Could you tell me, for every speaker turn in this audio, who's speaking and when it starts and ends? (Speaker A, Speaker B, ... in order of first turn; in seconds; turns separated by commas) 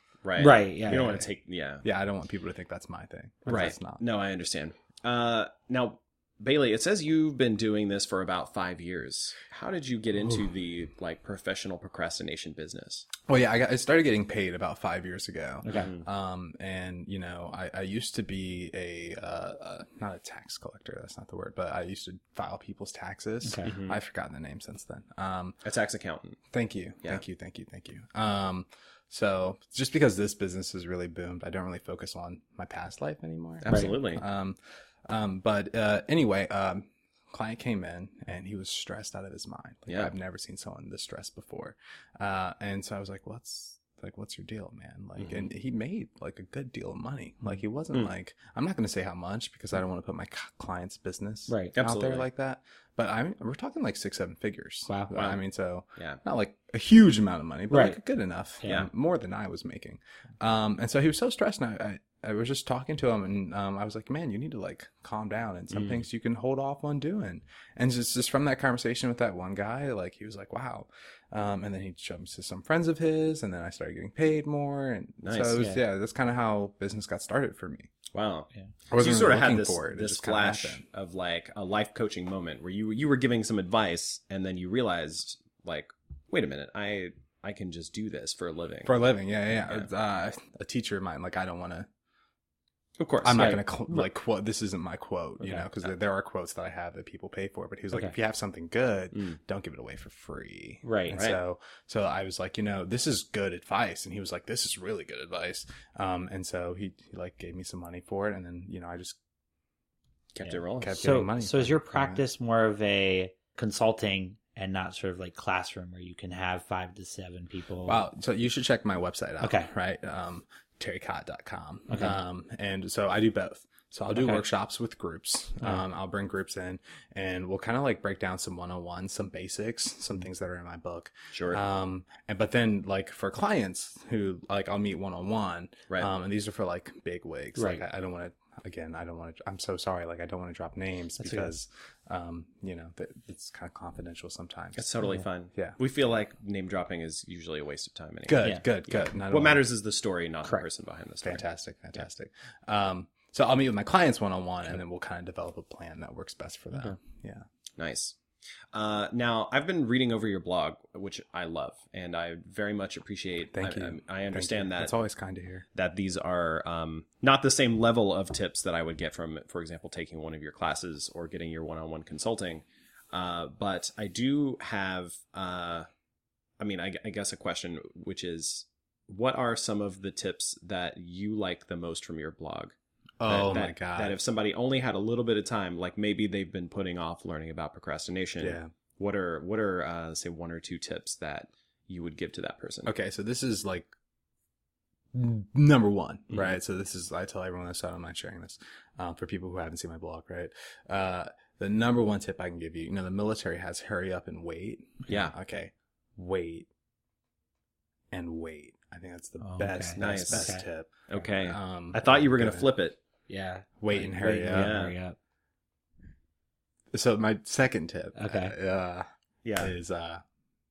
Speaker A: 0.2-1.9, Speaker B: 0.4-1.1, Speaker C: 0.9-1.3, Speaker C: 1.8-4.0, Speaker A: 3.5-13.1, Speaker C: 13.2-25.6, Speaker B: 15.6-15.9, Speaker A: 15.8-16.1, Speaker B: 23.4-23.7, Speaker A: 23.6-24.0, Speaker A: 25.6-26.4, Speaker C: 26.5-77.9, Speaker A: 33.6-34.2, Speaker B: 33.7-34.0, Speaker A: 45.2-45.5, Speaker B: 51.5-51.7, Speaker A: 51.8-52.3, Speaker A: 55.1-55.4, Speaker B: 57.7-58.0, Speaker A: 65.7-66.0, Speaker A: 75.2-75.6, Speaker A: 78.1-89.0, Speaker C: 78.9-80.8, Speaker C: 88.8-91.9, Speaker A: 89.6-89.9, Speaker A: 93.0-93.7, Speaker C: 93.2-109.2, Speaker B: 93.4-94.0, Speaker B: 95.4-95.7, Speaker A: 99.1-99.4, Speaker B: 100.8-101.2, Speaker A: 101.1-101.4, Speaker A: 110.3-111.0, Speaker C: 110.8-112.2, Speaker B: 111.0-118.0, Speaker C: 117.8-144.9, Speaker B: 119.4-119.7, Speaker B: 121.9-122.2, Speaker B: 124.1-124.4, Speaker A: 131.3-131.6, Speaker B: 137.6-137.8, Speaker B: 141.2-141.5, Speaker A: 144.8-151.4, Speaker C: 148.3-149.7, Speaker C: 151.2-157.5, Speaker A: 157.8-158.2, Speaker A: 158.7-164.9, Speaker C: 163.5-165.7, Speaker A: 165.8-175.9, Speaker A: 176.6-192.9, Speaker C: 183.2-184.2, Speaker C: 188.4-188.7, Speaker C: 192.8-193.9, Speaker C: 195.1-206.7, Speaker A: 196.3-196.6, Speaker A: 205.1-205.3, Speaker C: 208.1-212.7, Speaker B: 209.4-211.3, Speaker A: 210.0-210.6, Speaker A: 211.1-213.0, Speaker B: 213.3-215.2, Speaker C: 213.8-214.8, Speaker A: 214.5-215.0, Speaker C: 216.9-220.2, Speaker B: 218.2-218.6, Speaker A: 219.4-219.7